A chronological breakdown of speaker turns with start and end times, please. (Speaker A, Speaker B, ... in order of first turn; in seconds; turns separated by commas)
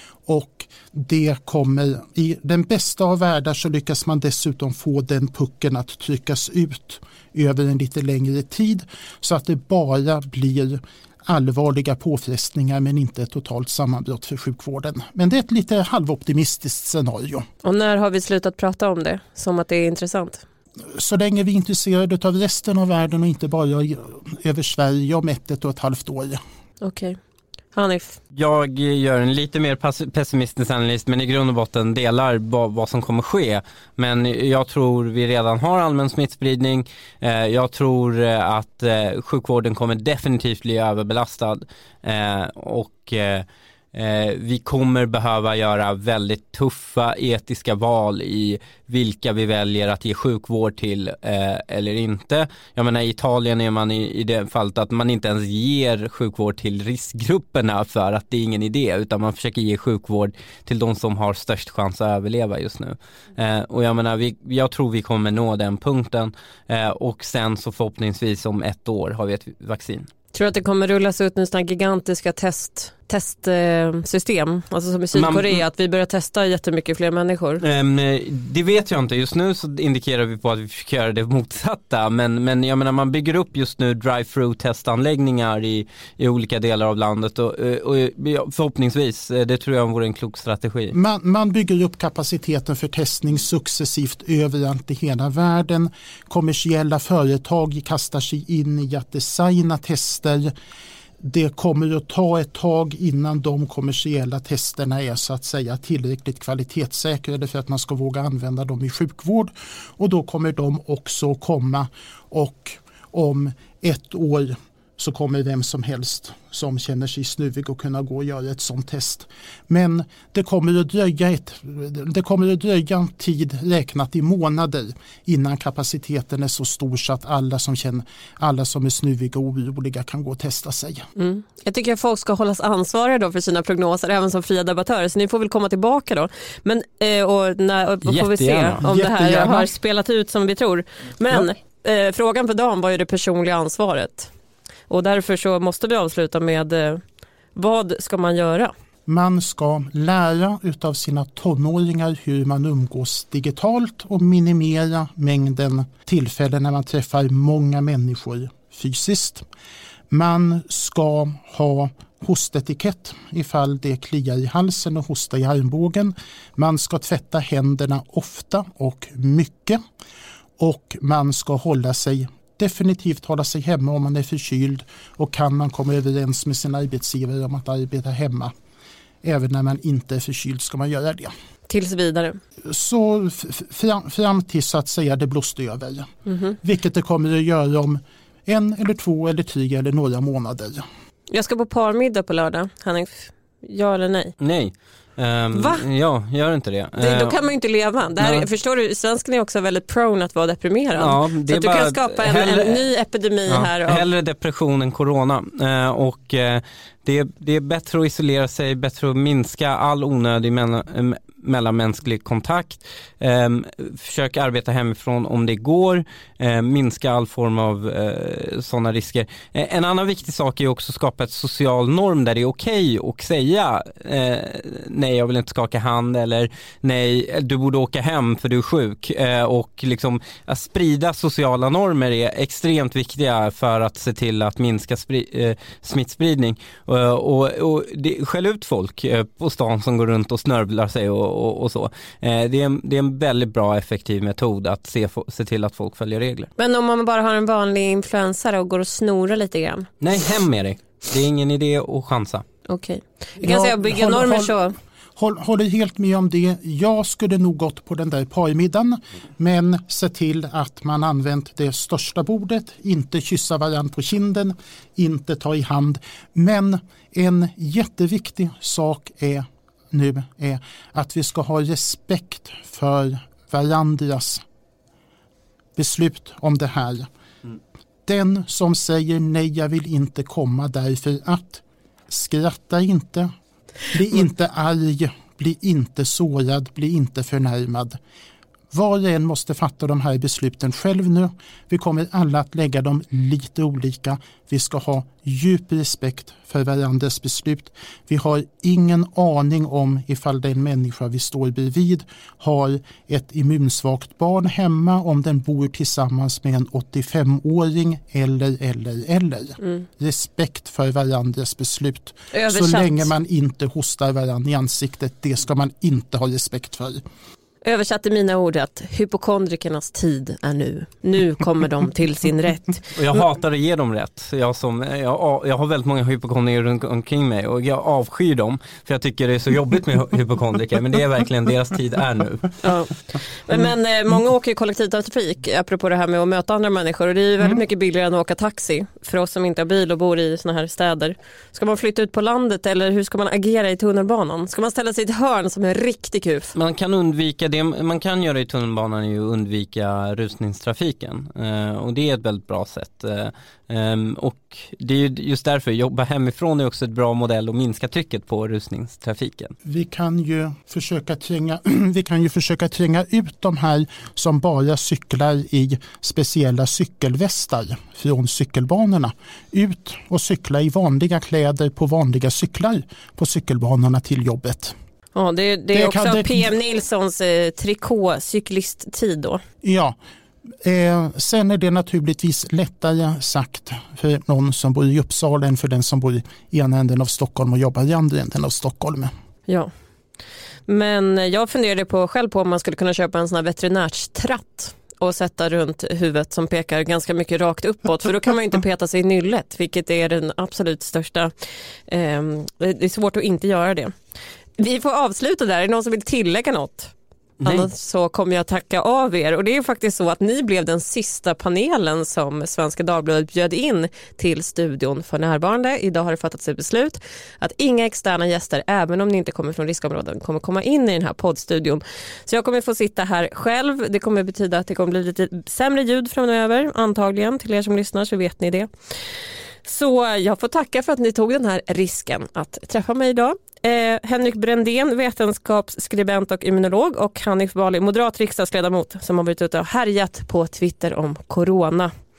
Speaker A: 0.3-17.5, Speaker B: 17.6-20.4, Speaker A: 20.9-26.4, Speaker B: 26.8-27.2, Speaker B: 27.7-28.2, Speaker C: 28.3-70.1, Speaker B: 70.3-77.6, Speaker C: 75.1-75.6, Speaker C: 77.6-91.0, Speaker A: 90.9-100.5, Speaker A: 101.2-131.1, Speaker B: 131.2-144.3, Speaker C: 138.1-138.8, Speaker A: 138.8-139.7, Speaker B: 144.9-147.0, Speaker B: 147.6-148.7, Speaker A: 149.1-159.4, Speaker A: 160.1-169.8, Speaker A: 170.6-178.5, Speaker A: 179.2-181.3, Speaker B: 181.7-182.4, Speaker A: 182.6-186.1, Speaker B: 186.3-186.6, Speaker A: 186.6-190.8, Speaker B: 191.3-194.3, Speaker C: 194.4-197.4, Speaker B: 195.5-195.8, Speaker B: 197.0-204.1, Speaker C: 198.2-198.5, Speaker C: 201.0-202.9, Speaker C: 203.5-246.5, Speaker B: 246.6-249.9, Speaker C: 250.0-252.4, Speaker B: 252.7-254.8, Speaker A: 253.4-254.6, Speaker A: 255.2-274.4, Speaker A: 275.8-277.1, Speaker A: 278.1-283.3, Speaker A: 283.9-288.0, Speaker A: 288.7-317.0, Speaker B: 312.3-313.1, Speaker B: 317.6-323.2, Speaker C: 322.9-332.6, Speaker B: 332.6-346.6, Speaker C: 346.6-359.5, Speaker A: 359.6-374.8, Speaker B: 375.1-379.4, Speaker A: 375.7-376.5, Speaker A: 379.6-380.0, Speaker A: 380.6-389.1, Speaker B: 390.7-401.3, Speaker B: 401.9-404.0, Speaker B: 404.6-406.9, Speaker C: 407.4-407.7, Speaker B: 407.4-428.7, Speaker B: 429.6-441.9